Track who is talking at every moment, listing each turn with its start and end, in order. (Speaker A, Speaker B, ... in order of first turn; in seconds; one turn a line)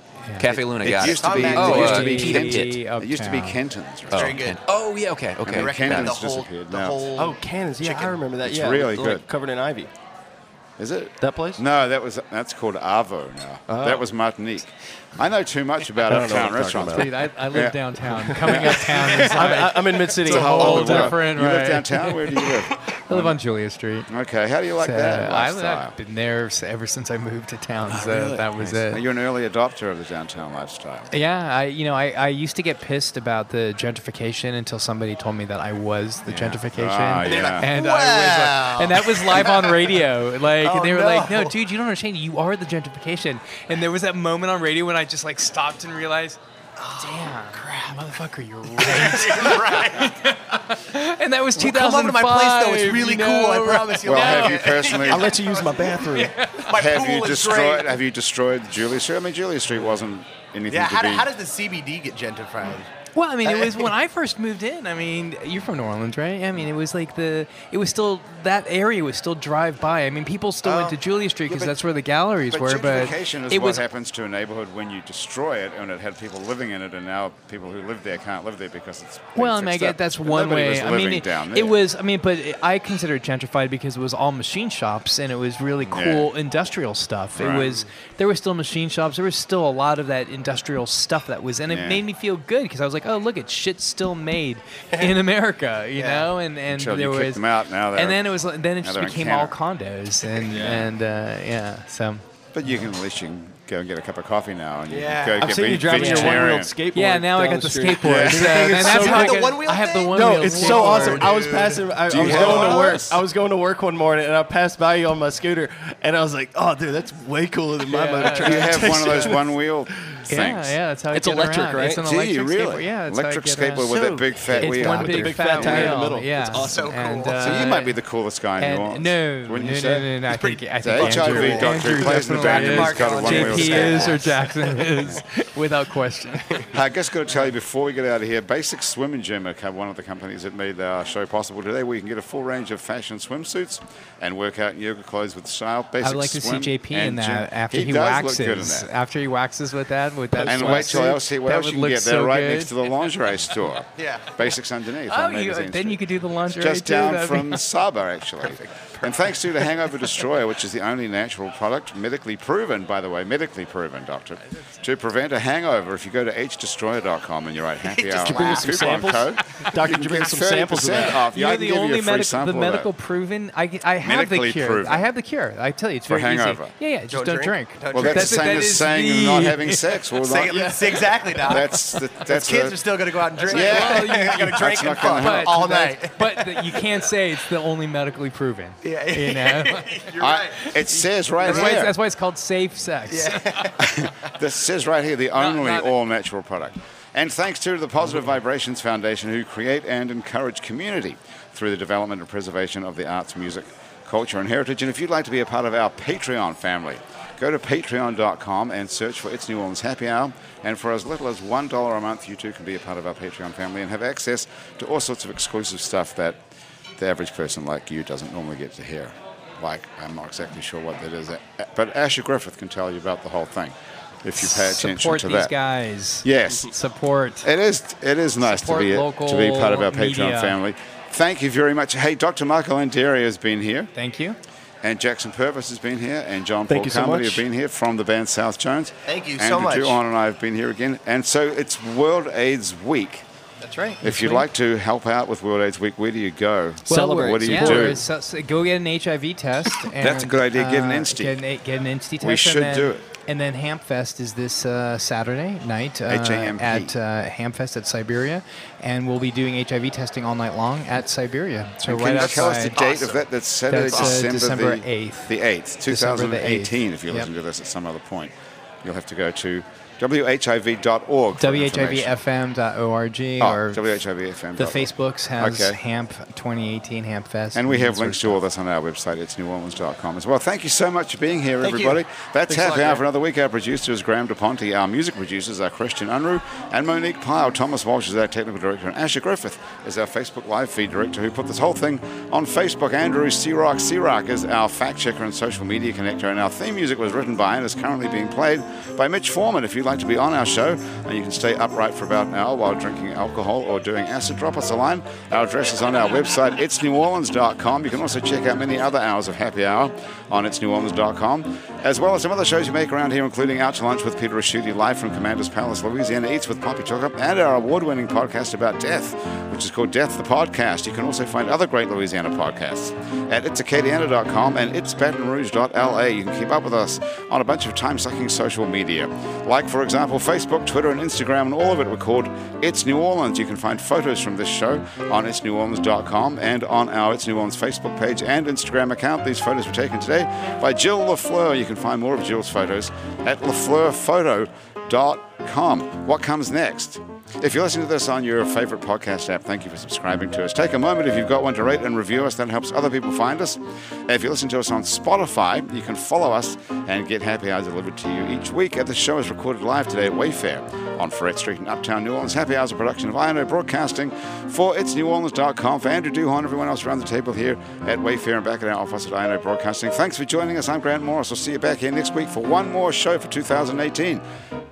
Speaker A: 0.3-0.5
Speaker B: 0.4-2.8
Speaker C: 0.5-4.5
Speaker D: 0.9-2.1
Speaker A: 1.1-3.6
Speaker B: 4.1-6.1
Speaker D: 4.1-4.6
Speaker C: 5.4-7.0
Speaker D: 5.5-8.2
Speaker E: 7.2-9.9
Speaker C: 8.4-9.2
Speaker C: 10.8-17.8
Speaker E: 11.2-11.6
Speaker E: 13.7-14.1
Speaker E: 16.0-17.2
Speaker A: 16.9-22.5
Speaker E: 18.2-21.2
Speaker C: 18.4-19.6
Speaker C: 20.2-23.4
Speaker A: 23.1-24.1
Speaker C: 24.1-25.9
Speaker A: 24.8-29.0
Speaker C: 28.6-31.1
Speaker A: 31.1-46.4
Speaker C: 36.2-37.7
Speaker D: 37.2-40.0
Speaker D: 40.6-41.5
Speaker D: 46.8-48.1
Speaker A: 47.0-55.0
Speaker D: 48.7-50.1
Speaker D: 51.5-58.0
Speaker C: 54.0-55.4
Speaker E: 55.1-56.4
Speaker A: 56.0-56.7
Speaker C: 56.7-61.3
Speaker D: 60.7-62.9
Speaker A: 63.1-73.8
Speaker D: 63.4-63.9
Speaker D: 70.6-71.0
Speaker C: 71.5-71.8
Speaker C: 72.5-81.8
Speaker A: 79.3-102.2
Speaker C: 85.9-86.3
Speaker C: 87.3-87.7
Speaker D: 87.4-87.8
Speaker C: 91.7-92.0
Speaker D: 96.0-96.3
Speaker C: 96.7-99.5
Speaker E: 100.5-100.9
Speaker C: 102.5-106.7
Speaker D: 104.9-105.7
Speaker E: 105.4-109.5
Speaker A: 105.9-111.3
Speaker C: 108.0-109.0
Speaker D: 108.7-113.0
Speaker E: 110.1-120.2
Speaker C: 112.1-113.2
Speaker A: 117.9-119.4
Speaker C: 118.3-120.8
Speaker A: 120.3-128.0
Speaker E: 121.1-122.0
Speaker C: 122.0-126.0
Speaker E: 124.4-127.0
Speaker D: 126.5-127.9
Speaker C: 127.4-130.1
Speaker A: 128.6-136.7
Speaker D: 130.3-134.9
Speaker C: 130.8-134.4
Speaker C: 136.7-148.9
Speaker A: 146.0-152.7
Speaker E: 150.3-151.0
Speaker C: 150.4-172.9
Speaker D: 154.0-154.3
Speaker A: 155.1-157.6
Speaker D: 159.0-159.3
Speaker D: 167.9-169.1
Speaker E: 168.2-171.2
Speaker A: 170.9-179.9
Speaker C: 174.0-175.1
Speaker C: 176.1-176.7
Speaker D: 177.1-178.6
Speaker C: 177.9-182.8
Speaker D: 180.2-186.8
Speaker A: 183.4-190.0
Speaker C: 183.4-185.8
Speaker D: 188.8-191.8
Speaker C: 190.2-191.9
Speaker A: 191.4-193.8
Speaker D: 193.1-194.1
Speaker C: 193.8-216.4
Speaker A: 195.3-195.9
Speaker C: 217.0-225.5
Speaker A: 224.4-227.4
Speaker C: 226.2-226.7
Speaker C: 227.4-233.9
Speaker A: 228.4-230.6
Speaker A: 233.9-234.4
Speaker C: 234.8-243.2
Speaker E: 236.7-237.4
Speaker D: 239.1-240.0
Speaker A: 243.6-244.5
Speaker C: 244.0-248.0
Speaker E: 246.8-248.0
Speaker A: 246.9-262.8
Speaker C: 249.9-251.4
Speaker C: 252.2-253.0
Speaker C: 256.1-256.9
Speaker C: 261.9-268.3
Speaker D: 262.1-263.2
Speaker A: 263.7-265.3
Speaker D: 263.9-264.2
Speaker A: 265.9-267.3
Speaker C: 268.8-272.1
Speaker A: 271.4-273.9
Speaker C: 273.4-275.8
Speaker A: 274.6-278.4
Speaker C: 277.5-374.2
Speaker D: 281.6-283.0